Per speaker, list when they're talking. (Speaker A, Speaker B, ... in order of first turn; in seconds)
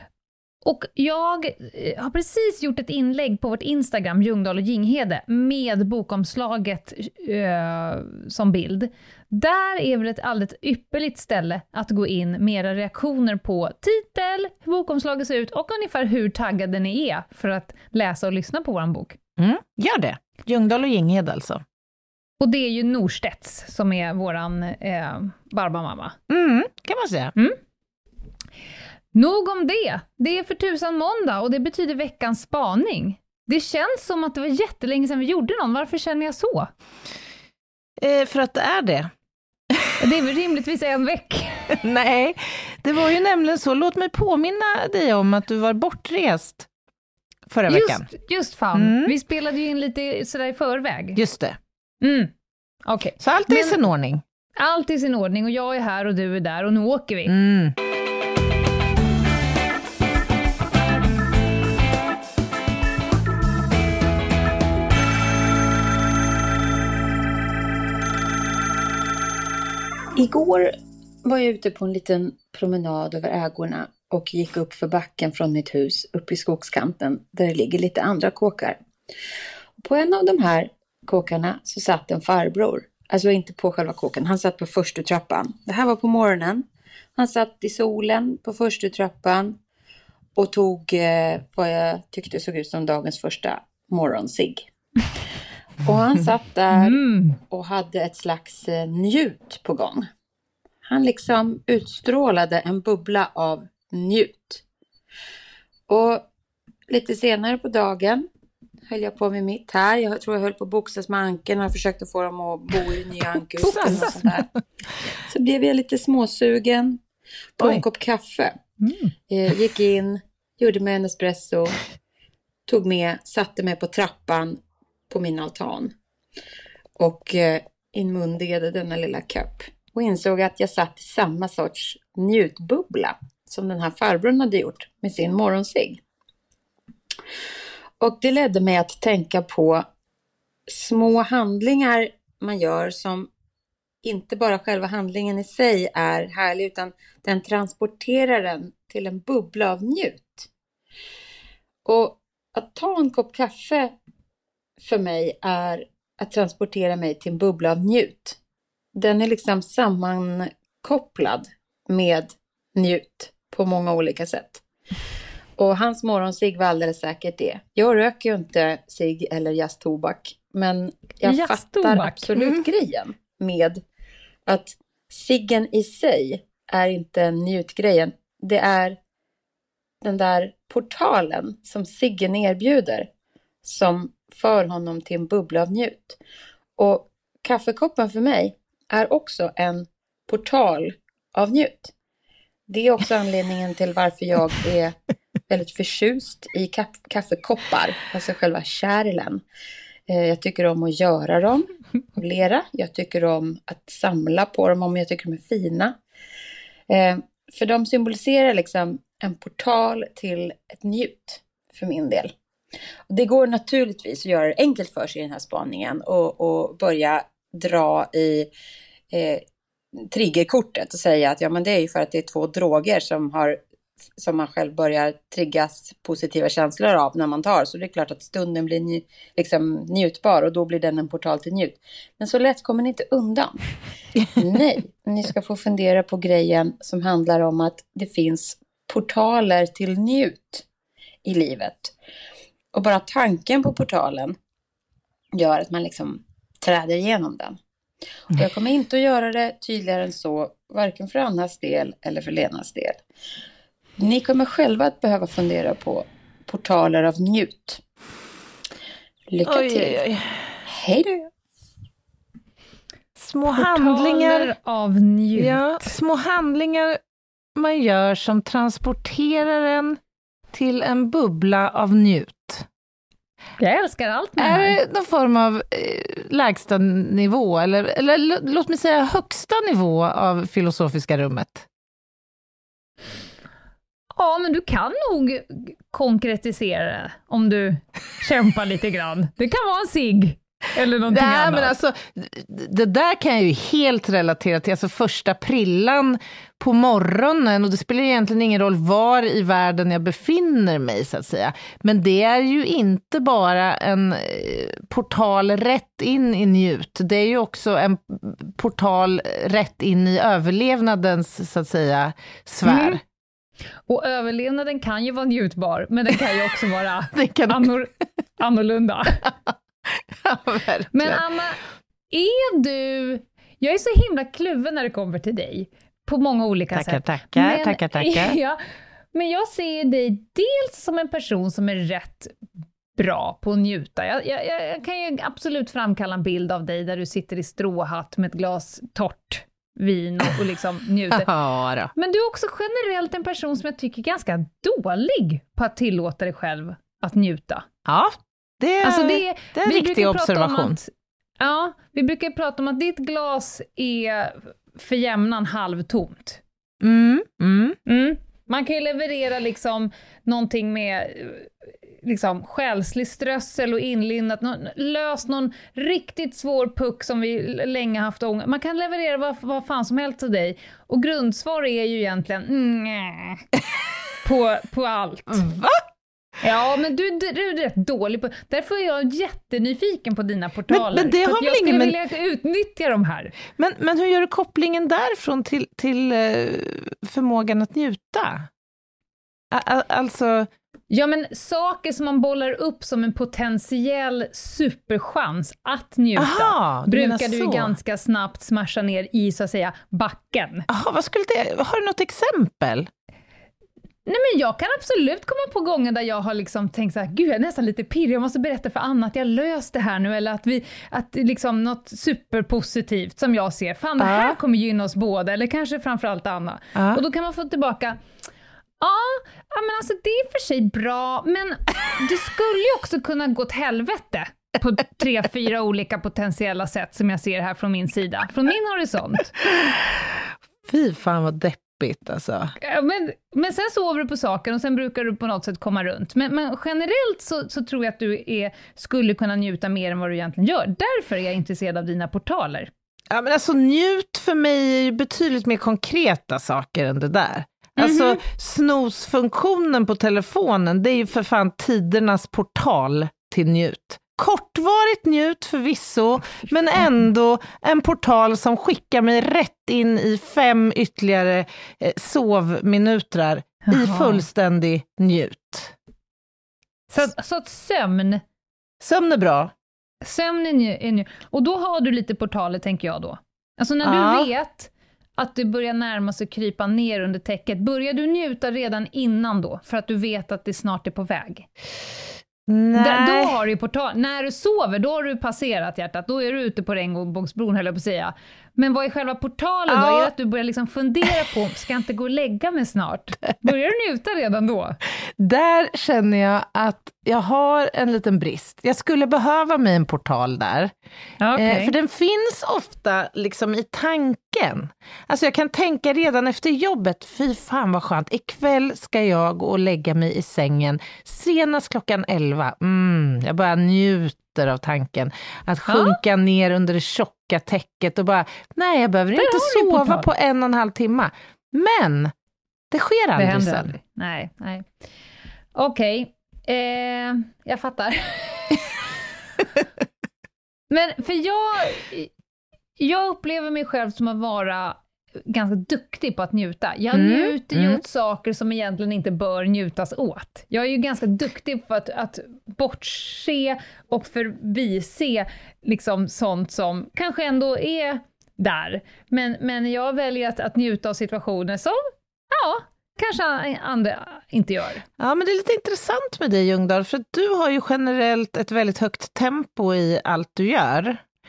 Speaker A: 0.6-19.2, 22.4-26.2, 29.1-36.7, 40.0-41.8, 47.7-51.2, 52.0-52.3, 52.9-53.8, 54.6-57.3, 96.7-97.4, 113.6-114.2, 118.8-119.1, 171.2-172.3, 263.5-266.0, 273.6-274.8, 284.1-291.7, 312.6-313.0, 313.9-319.2, 320.9-321.6, 322.1-328.6, 329.1-332.4, 333.0-341.3, 342.0-347.7, 348.8-356.4, 357.9-361.5, 362.0-373.4, 374.2-375.4, 376.4-383.3, 390.9-400.7, 404.1-418.0, 418.8-429.4, 432.6-442.7, 447.8-448.2, 463.7-464.2, 466.9-468.2, 470.0-481.5, 482.8-494.8, 501.2-501.7, 515.7-516.0, 519.1-520.1, 523.2-524.7, 525.5-528.7, 530.7-532.1, 532.8-554.9
Speaker B: 19.4-21.6, 26.3-27.3, 38.0-39.1, 41.8-46.7, 47.5-48.1, 48.7-49.1, 51.2-51.6, 53.2-54.2, 57.3-57.8, 113.6-114.4, 172.4-172.6, 259.5-260.4, 263.2-264.5, 265.4-267.0, 267.6-270.0, 270.5-272.7, 274.4-281.7, 291.1-313.0, 317.1-317.7, 319.9-321.2, 326.7-328.4, 341.1-341.9, 347.9-350.8, 356.8-357.8, 375.3-375.9, 380.7-382.0, 383.6-388.5, 389.5-390.5, 396.2-397.8, 400.7-402.9, 414.0-414.4, 416.8-417.0, 430.7-432.5, 443.1-465.8, 468.8-469.5, 473.8-474.3, 482.5-483.4, 489.7-490.1, 495.2-500.7, 501.4-522.1, 522.7-523.7, 536.9-537.8, 555.0-561.0
Speaker C: 70.2-78.8, 79.8-86.7, 87.2-89.6, 90.4-94.7, 95.8-100.1, 100.9-104.6, 105.9-106.3, 106.9-108.3, 108.9-114.5, 115.3-117.0, 117.6-118.5, 119.3-121.8, 122.7-124.6, 125.1-125.9, 127.0-136.0, 138.0-139.8, 140.7-143.3, 144.0-150.5, 151.8-153.9, 154.8-158.4, 158.9-164.6, 165.6-173.8, 174.5-179.0, 180.0-183.1, 183.6-186.2, 186.8-191.9, 192.7-194.9, 195.5-199.4, 200.1-206.0, 206.9-212.3, 213.1-218.5, 219.1-219.4, 220.1-223.6, 224.2-233.6, 234.4-240.6, 241.2-241.9, 242.7-244.4, 245.3-247.6, 248.3-253.0, 254.0-257.8, 259.3-260.0, 260.7-261.3